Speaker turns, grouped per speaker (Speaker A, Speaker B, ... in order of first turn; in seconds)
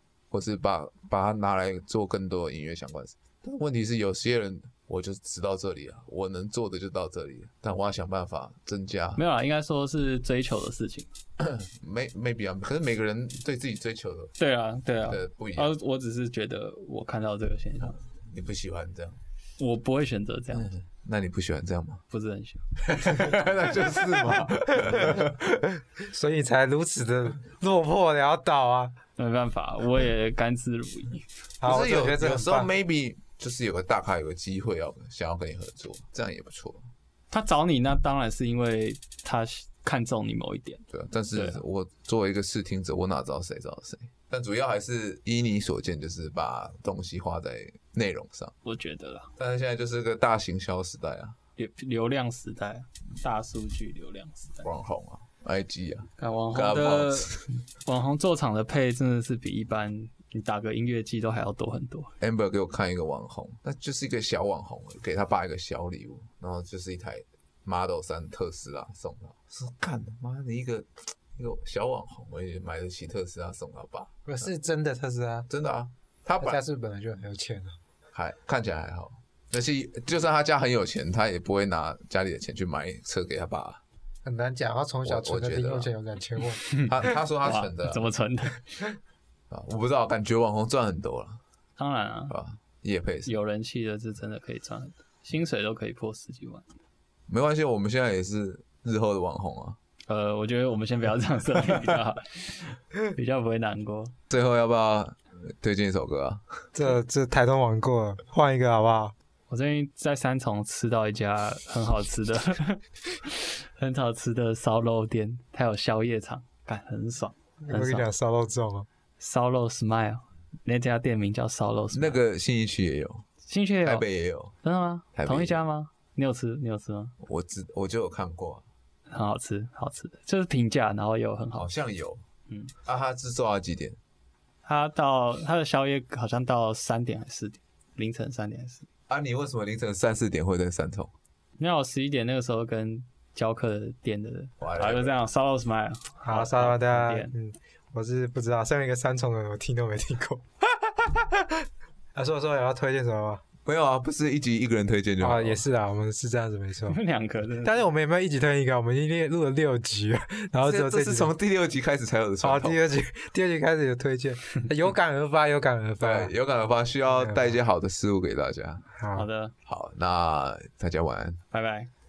Speaker A: 0.3-9.2, 11.4-14.3, 15.0-15.7, 17.9-19.2, 20.5-22.0, 22.8-25.6, 31.6-36.8, 40.9-48.5, 49.4-51.4, 54.6-57.5, 62.2-74.1, 75.5-76.6, 78.1-83.8, 85.0-85.9, 86.8-88.1, 89.5-91.4, 92.3-93.3, 97.3-99.8, 104.3-106.8, 121.9-123.2, 123.8-124.5, 125.2-125.6, 127.2-128.6, 131.6-132.2, 132.8-134.0, 139.1-141.1, 144.6-145.1, 153.6-155.6, 160.6-162.8, 166.0-168.8, 169.7-171.4
Speaker B: 9.2-11.1, 14.4-18.0, 19.6-20.7, 22.1-23.3, 29.2-31.2, 37.3-40.8, 41.3-41.6, 48.6-49.3, 51.6-54.7, 56.2-62.1, 86.6-88.6, 91.8-92.3, 93.2-96.6, 100.1-104.1, 109.5-118.0, 119.2-122.2, 123.4-124.0, 124.6-127.1, 129.1-131.7, 134.6-138.9, 141.6-147.3, 156.9-157.8, 169.1-169.5, 171.5-171.9
Speaker C: 23.9-25.3, 26.0-28.9, 31.6-32.7, 74.2-75.5, 76.4-77.8, 84.2-86.7, 106.7-109.1, 117.6-118.9, 146.2-153.4, 155.2-157.0, 157.6-161.3, 162.4-166.3, 167.1-167.6, 168.9-169.3